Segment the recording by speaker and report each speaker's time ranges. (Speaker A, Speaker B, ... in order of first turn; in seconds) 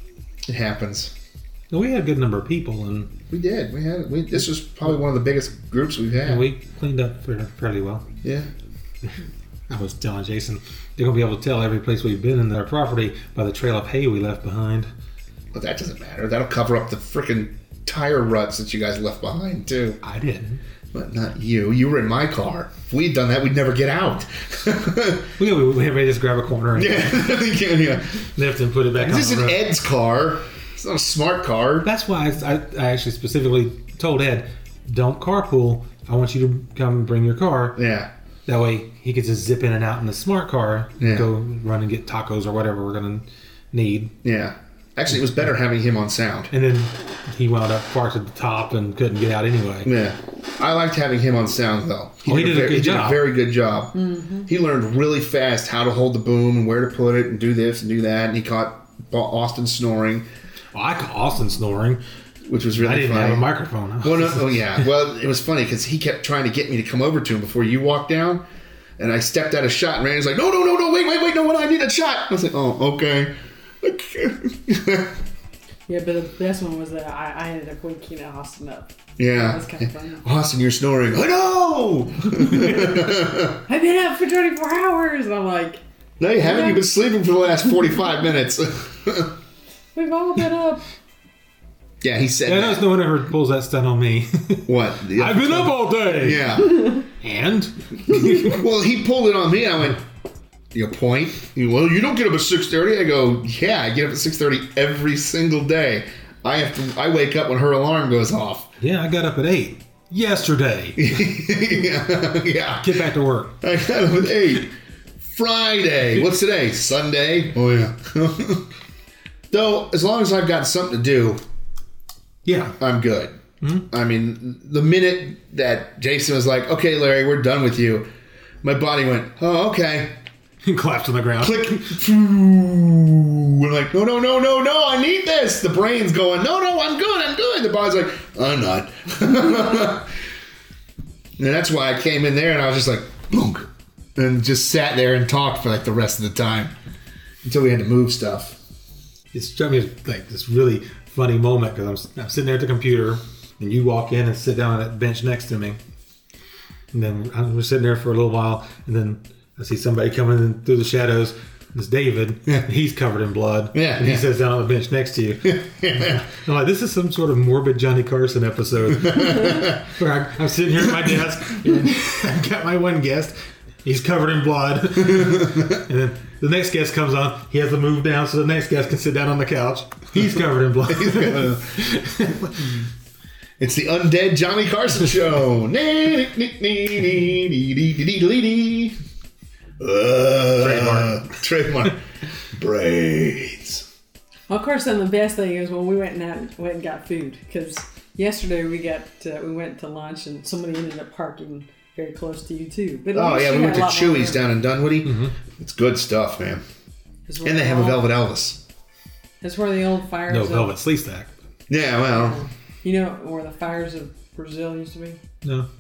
Speaker A: 0.5-1.1, 3.3-6.5, 8.2-8.5, 15.5-20.0, 20.9-25.3, 26.8-28.2, 29.0-31.9, 37.8-38.1, 41.0-41.3, 44.2-46.5, 49.8-60.3, 62.5-63.5, 64.0-68.4, 69.0-75.2, 79.2-83.6, 86.2-89.4, 92.0-92.9, 94.7-97.0, 98.1-100.0, 100.7-108.7, 111.0-113.0, 113.6-114.7, 115.3-118.6, 119.5-121.4, 122.8-128.1, 128.6-130.2, 131.4-140.1, 141.4-146.7, 147.4-148.6, 163.7-164.2, 165.4-166.2, 169.0-169.8, 175.0-175.8, 180.9-181.9, 183.6-189.0, 189.8-192.0, 192.5-193.8, 203.1-206.6, 207.4-208.6, 211.7-212.4
Speaker B: 1.7-3.1, 6.2-8.1, 9.7-14.9, 20.0-20.6, 25.4-27.4, 28.4-29.7, 31.8-37.8, 38.5-44.1, 46.5-49.9, 52.2-53.2, 60.7-62.0, 62.7-64.9, 92.4-96.6, 97.1-98.6, 108.8-111.1, 112.8-113.6, 122.4-122.8, 130.6-131.9, 149.3-155.8, 156.9-182.7, 190.6-191.2, 205.0-205.3, 210.3-211.3, 215.4-215.7
Speaker C: 53.9-54.5, 75.9-80.2, 82.5-82.9, 83.7-85.8, 86.4-86.8, 89.9-90.8, 194.5-204.4, 207.3-208.1, 209.4-210.7, 212.1-215.2